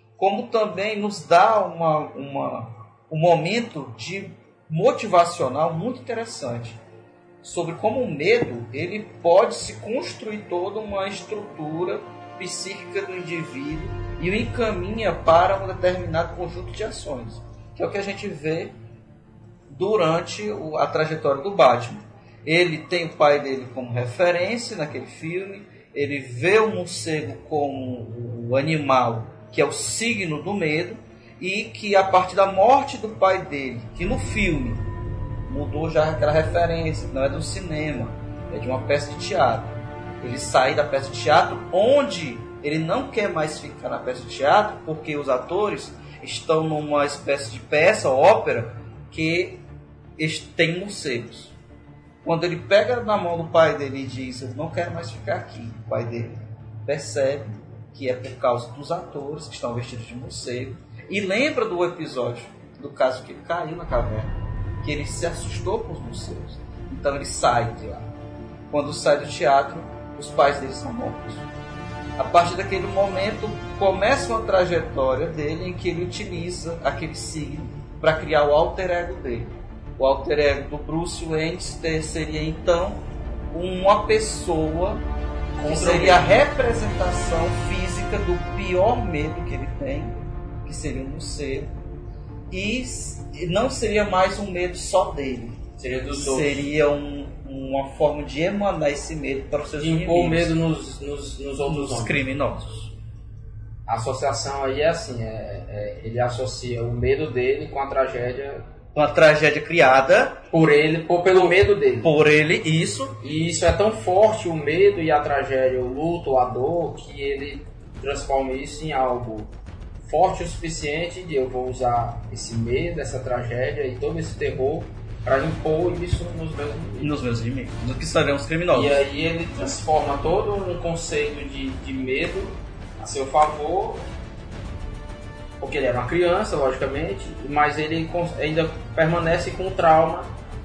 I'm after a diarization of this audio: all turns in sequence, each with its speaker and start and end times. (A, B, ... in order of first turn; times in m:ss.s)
0:00.2-0:06.8 A
0:07.4-0:18.7 A
0:19.7-0:34.8 A
0:35.5-0:49.6 A
0:50.2-0:51.5 A
0:52.2-1:04.3 A
1:04.8-1:08.1 A
1:08.7-1:11.5 A
1:12.2-1:25.0 A
1:25.6-1:26.4 B
1:25.6-1:31.7 A
1:32.5-1:35.6 A
1:35.8-1:36.7 B
1:36.1-1:40.5 A
1:39.8-1:42.2 B
1:41.7-1:42.9 A
1:43.9-1:48.6 B
1:49.0-1:50.4 A
1:50.5-1:52.1 B
1:51.3-1:53.2 A
1:53.2-1:59.5 B
2:00.0-2:07.1 B
2:07.0-2:09.0 A
2:08.7-2:14.0 B
2:15.6-2:20.3 B